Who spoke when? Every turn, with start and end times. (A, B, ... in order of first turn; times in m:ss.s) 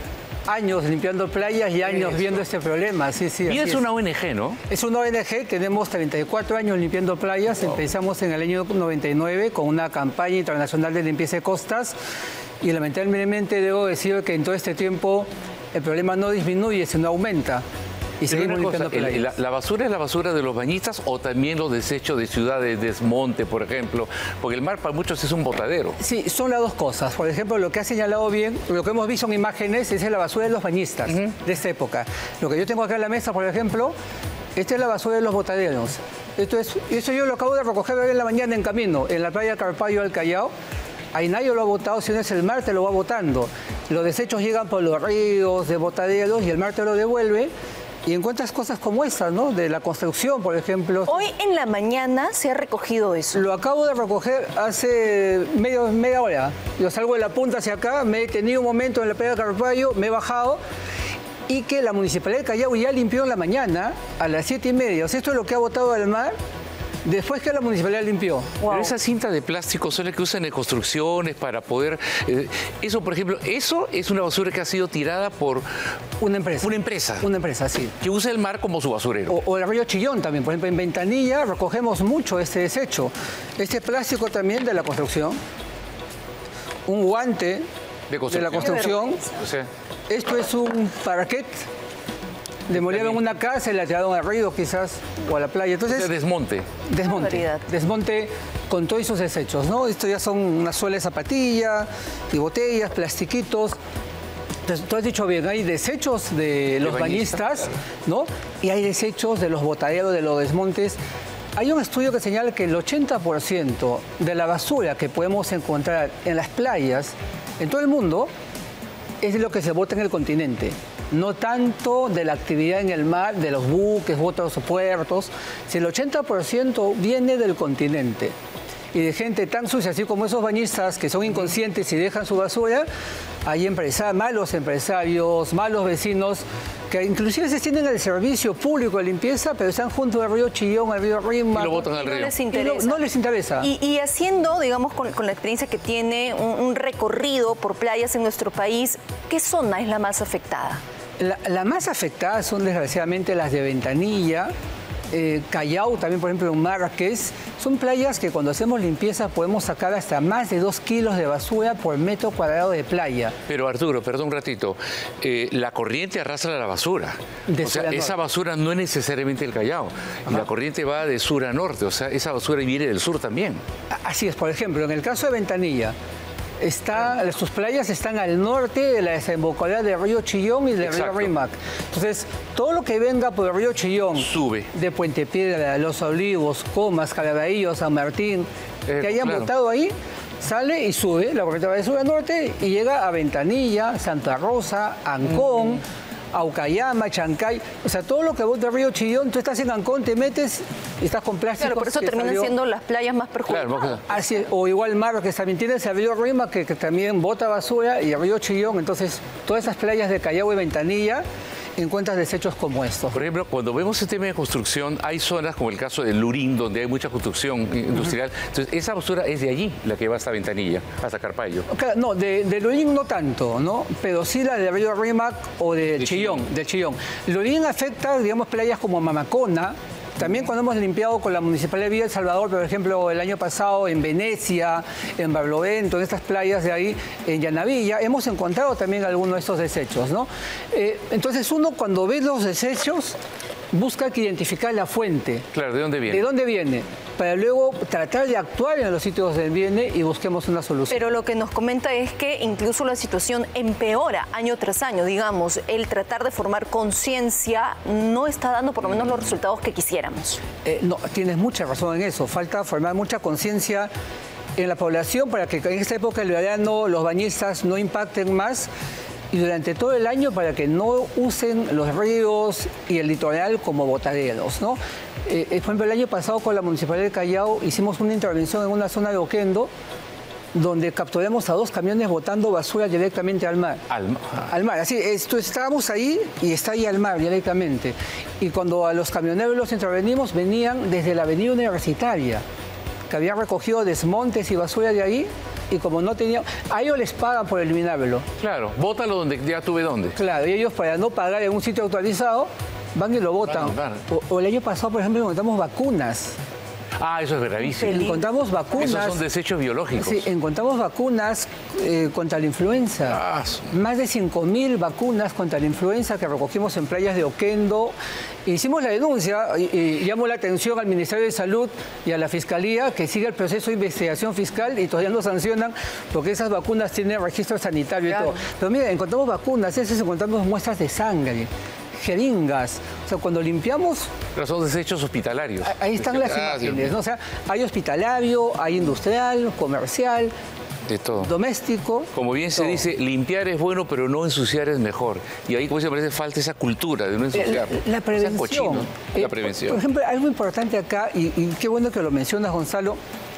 0:00.5-0:03.9 A
0:01.9-0:02.2 B
0:03.5-0:04.6 B
0:04.7-0:12.0 A
0:12.6-0:17.6 A
0:18.2-0:19.3 A
0:18.3-0:26.0 B
0:26.0-0:34.0 A
0:34.6-0:40.5 A
0:41.1-0:47.5 A
0:48.0-0:51.2 A
0:51.1-0:53.5 C
0:53.3-1:00.6 A
1:01.5-1:06.3 A
1:07.0-1:08.6 A
1:08.6-1:15.7 B
1:08.6-1:08.9 C
1:16.2-1:18.0 A
1:16.6-1:17.3 B
1:18.0-1:19.4 B
1:19.3-1:25.4 A
1:26.9-1:27.6 A
1:28.1-1:29.7 B
1:28.3-1:29.2 A
1:28.5-1:29.3 C
1:30.1-1:31.6 A
1:32.7-1:36.1 A
1:32.8-1:33.2 B
1:35.9-1:36.7 B
1:36.8-1:43.8 A
1:37.0-1:37.6 C
1:44.7-1:51.0 A
1:46.8-1:47.4 B
1:51.6-1:58.3 A
1:59.2-2:08.3 A
2:08.9-2:12.9 A
2:13.4-2:21.9 A
2:21.5-2:22.3 B
2:21.9-2:23.0 C
2:22.5-2:23.7 A
2:23.6-2:30.8 C
2:31.2-2:34.5 A
2:35.1-2:43.4 A
2:43.5-2:53.6 B
2:47.5-2:48.2 A
2:53.9-2:56.0 A
2:56.6-3:08.5 A
3:00.8-3:01.3 B
3:04.2-3:04.7 B
3:08.9-3:09.5 B
3:09.0-3:22.5 A
3:21.6-3:24.0 C
3:23.5-3:24.0 B
3:24.0-3:31.2 A
3:31.8-3:33.2 A
3:33.1-3:41.7 B
3:41.7-4:03.2 A
4:03.7-4:05.5 A
4:05.5-4:06.3 B
4:06.1-4:11.1 A
4:10.9-4:20.4 C
4:20.6-4:23.9 A
4:24.6-4:28.7 A
4:29.3-4:39.7 A
4:40.5-4:43.8 A
4:43.9-4:44.5 B
4:44.5-4:52.4 A
4:53.1-4:58.3 A
4:58.4-5:00.2 B
5:00.2-5:06.4 A
5:03.4-5:04.0 B
5:07.0-5:08.2 B
5:07.8-5:09.2 A
5:08.8-5:10.3 B
5:10.0-5:17.9 A
5:13.1-5:13.7 B
5:18.4-5:34.1 A
5:34.4-5:36.9 B
5:35.6-5:40.3 A
5:40.9-5:41.3 B
5:41.2-5:42.8 A
5:42.1-5:49.8 B
5:47.3-5:53.0 A